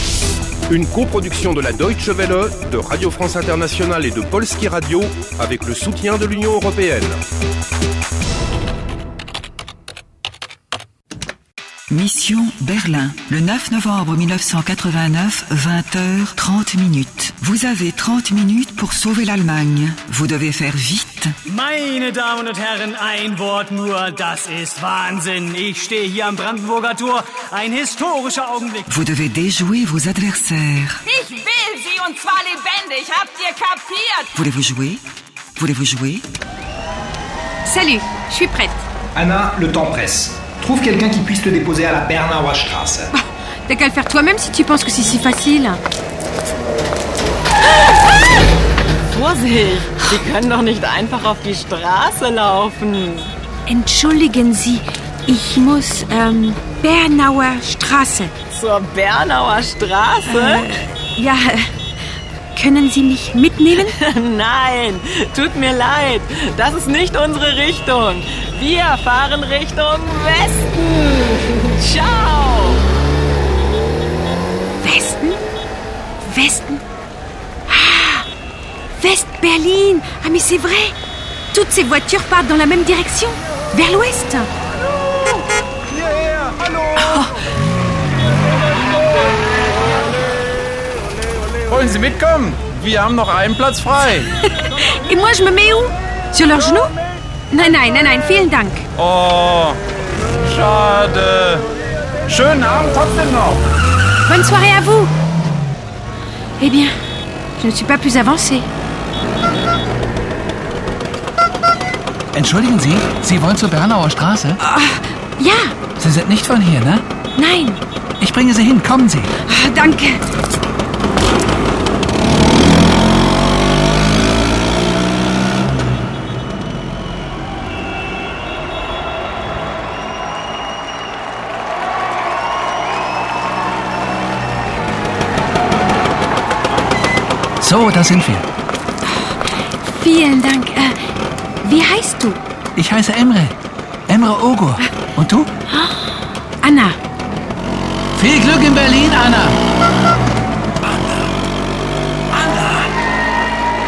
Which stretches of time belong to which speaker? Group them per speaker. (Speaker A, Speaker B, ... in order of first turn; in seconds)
Speaker A: 0.7-7.2
Speaker B: 11.9-21.3, 28.9-31.0, 34.3-35.0, 35.6-36.3
Speaker C: 21.5-28.9
Speaker D: 31.1-34.2
Speaker E: 37.6-38.9, 43.1-45.8, 53.7-58.3, 60.3-61.7, 62.5-64.0, 74.8-75.4, 76.2-76.8, 77.7-78.2, 79.0-80.9, 81.5-84.5, 94.5-96.9, 97.5-98.9, 104.3-105.1, 106.6-106.9, 107.6-108.7, 114.6-115.7, 117.3-117.8, 119.5-120.2, 139.1-141.0, 141.6-142.4, 145.7-146.1, 146.6-147.0
Speaker F: 39.1-43.1
Speaker G: 49.1-53.3, 58.5-60.7, 63.8-72.8
Speaker H: 91.7-94.3, 99.0-99.8, 100.5-101.6, 102.3-103.6
Speaker I: 112.3-114.6, 116.0-117.0, 118.2-119.3, 137.6-138.4, 142.8-143.5, 144.1-145.5, 148.2-149.6, 152.3-152.9